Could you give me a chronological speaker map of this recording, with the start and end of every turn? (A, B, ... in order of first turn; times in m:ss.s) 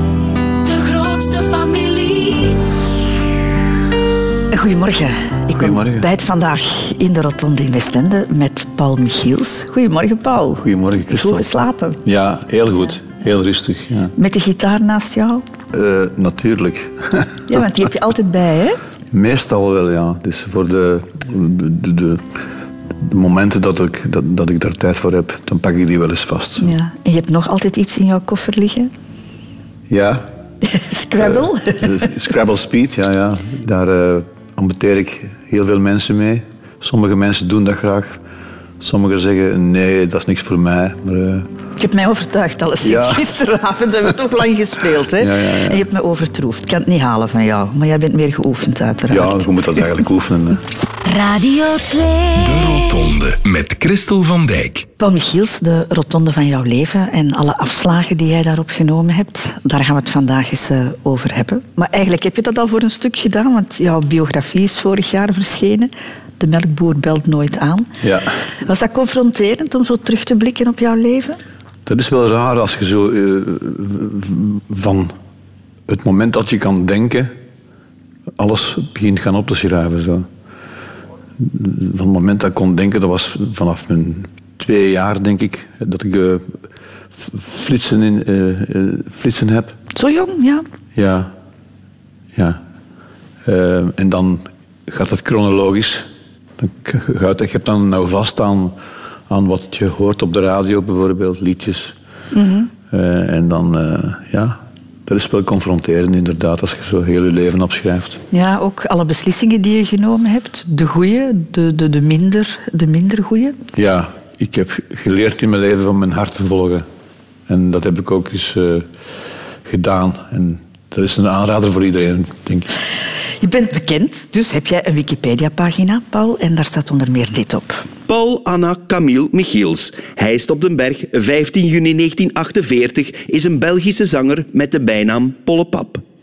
0:00.6-0:02.6 A
0:04.5-0:12.0 B
0:05.6-0:06.1 C
0:10.6-0:11.5 C
0:12.0-0:14.1 C
0:14.2-0:15.4 B
0:15.7-0:17.4 C
0:17.5-0:18.8 B
0:19.1-0:22.2 C
0:23.0-0:26.7 C
0:26.6-0:28.9 B
0:29.9-0:30.3 C
0:30.6-0:32.1 B
0:31.2-0:38.2 C
0:38.8-0:41.5 C
0:41.8-0:49.5 B
0:42.8-0:43.6 C
0:45.2-0:45.9 C
0:49.1-0:50.6 C
0:51.0-0:52.6 A
0:52.4-0:54.9 D
0:55.0-1:07.9 B
1:08.0-1:08.4 C
1:08.6-1:11.4 B
1:11.9-1:15.1 C
1:15.9-1:17.3 C
1:18.4-1:20.3 C
1:21.4-1:26.5 C
1:27.2-1:29.8 C
1:29.9-1:30.6 B
1:31.0-1:31.3 C
1:32.4-1:32.6 C
1:33.4-1:38.8 C
1:39.3-1:42.0 C
1:42.3-1:42.7 B
1:42.9-1:48.2 C
1:48.3-1:53.6 B
1:53.7-1:56.9 C
1:57.5-1:58.9 C
1:59.6-2:02.8 C
2:03.4-2:07.8 B
2:08.1-2:16.0 E